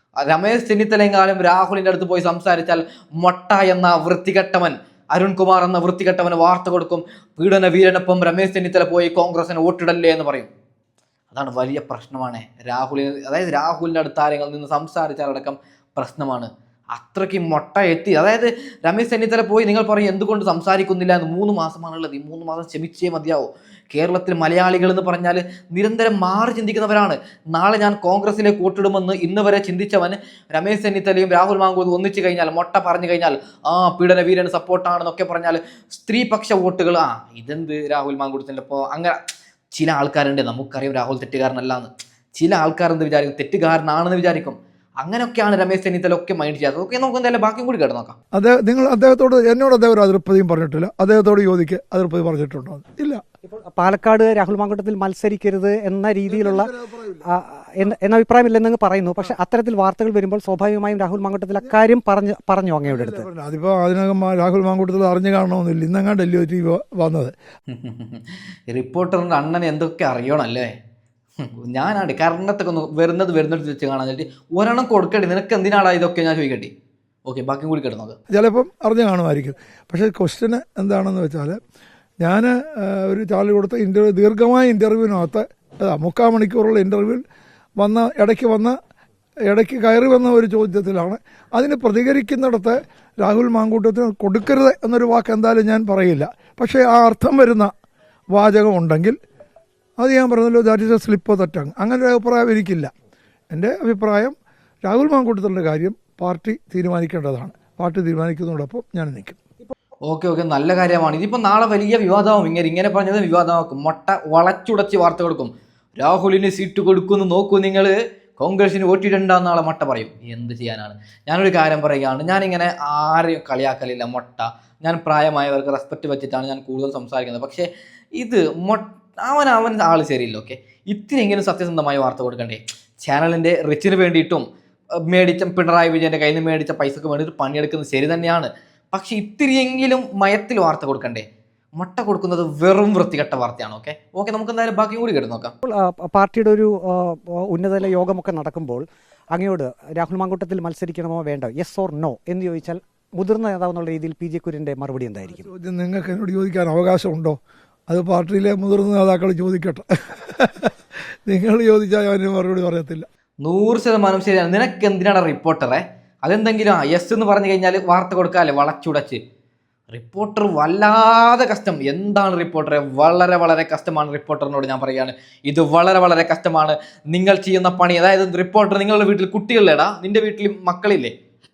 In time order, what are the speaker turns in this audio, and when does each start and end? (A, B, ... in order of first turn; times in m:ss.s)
0:00.2-0:10.5 A
0:11.3-0:39.2 A
0:39.7-0:48.2 A
0:48.3-0:53.2 B
0:53.5-0:56.7 C
0:56.3-0:57.2 B
0:57.3-1:03.3 C
1:02.9-1:07.3 B
1:07.7-1:10.7 A
1:11.4-1:16.7 A
1:17.3-1:18.2 A
1:18.3-1:21.6 B
1:22.2-1:27.2 B
1:27.8-1:28.8 B
1:29.5-1:37.7 B
1:38.3-1:39.2 B
1:40.0-1:42.9 B
1:43.5-1:44.3 B
1:44.8-1:49.4 B
1:50.1-2:14.4 A
2:15.1-2:21.2 A
2:21.8-2:25.5 A
2:25.6-2:28.8 C
2:29.3-2:35.5 C
2:35.3-2:40.7 B
2:41.3-2:43.1 B
2:43.4-2:49.2 A
2:49.9-3:01.1 A